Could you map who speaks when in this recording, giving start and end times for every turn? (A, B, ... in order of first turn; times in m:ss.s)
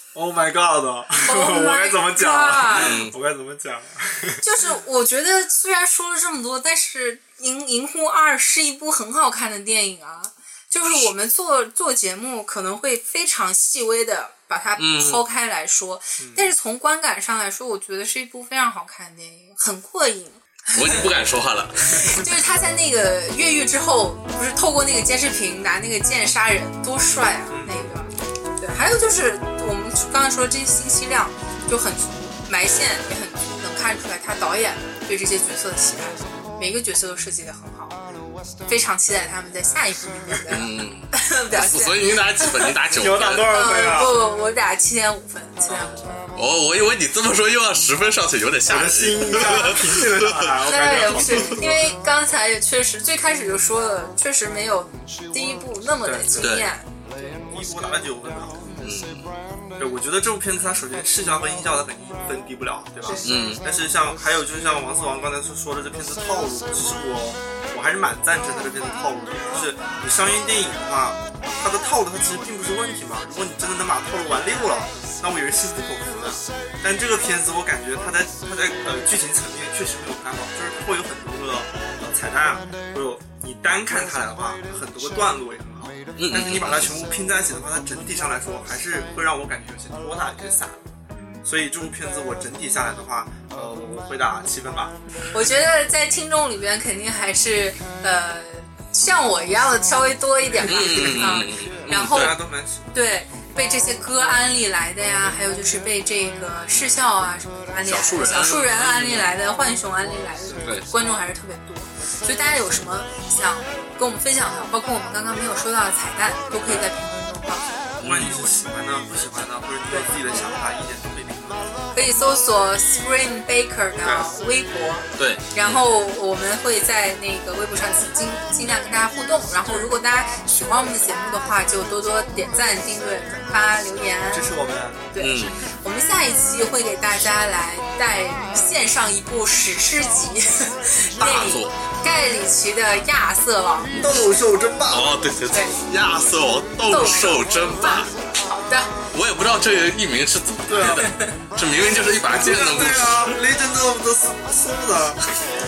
0:00.1-0:04.5 A
0:01.2-0:02.9 B
0:02.7-0:03.1 C
0:04.4-0:21.1 B
0:14.8-0:15.2 C
0:16.2-0:16.5 A
0:20.7-0:22.3 C
0:21.8-0:38.0 B
0:27.5-0:27.9 A
0:38.6-0:42.7 B
0:40.5-0:43.7 C
0:42.9-0:44.2 A
0:43.5-0:46.3 B
0:45.7-0:45.9 A
0:46.3-0:51.6 C
0:48.7-0:51.9 A
0:49.2-0:50.0 B
0:50.6-0:57.4 B
0:56.0-0:56.4 A
0:56.4-0:56.7 C
0:57.4-0:58.7 A
0:58.6-0:59.0 B
0:58.8-0:59.3 C
0:59.8-1:30.8 A
1:03.0-1:03.4 B
1:03.2-1:03.6 C
1:26.2-1:26.9 C
1:31.1-1:31.4 B
1:31.4-1:34.9 A
1:35.3-1:42.4 B
1:40.6-1:42.4 C
1:42.0-1:42.9 A
1:42.9-1:57.7 B
1:47.8-1:49.3 C
1:50.6-1:50.9 C
1:58.0-1:58.4 C
1:58.0-2:01.7 A
1:59.9-2:00.2 B
2:01.9-2:14.5 B
2:04.0-2:04.3 A
2:05.2-2:05.9 C
2:14.3-2:15.1 A
2:15.1-2:24.3 B
2:15.2-2:15.6 C
2:21.2-2:21.8 C
2:23.9-2:25.2 A
2:24.9-2:28.1 C
2:25.5-2:25.8 B
2:26.8-2:28.9 B
2:29.1-2:33.4 C
2:30.7-2:31.1 A
2:30.9-2:31.4 B
2:32.3-2:35.3 A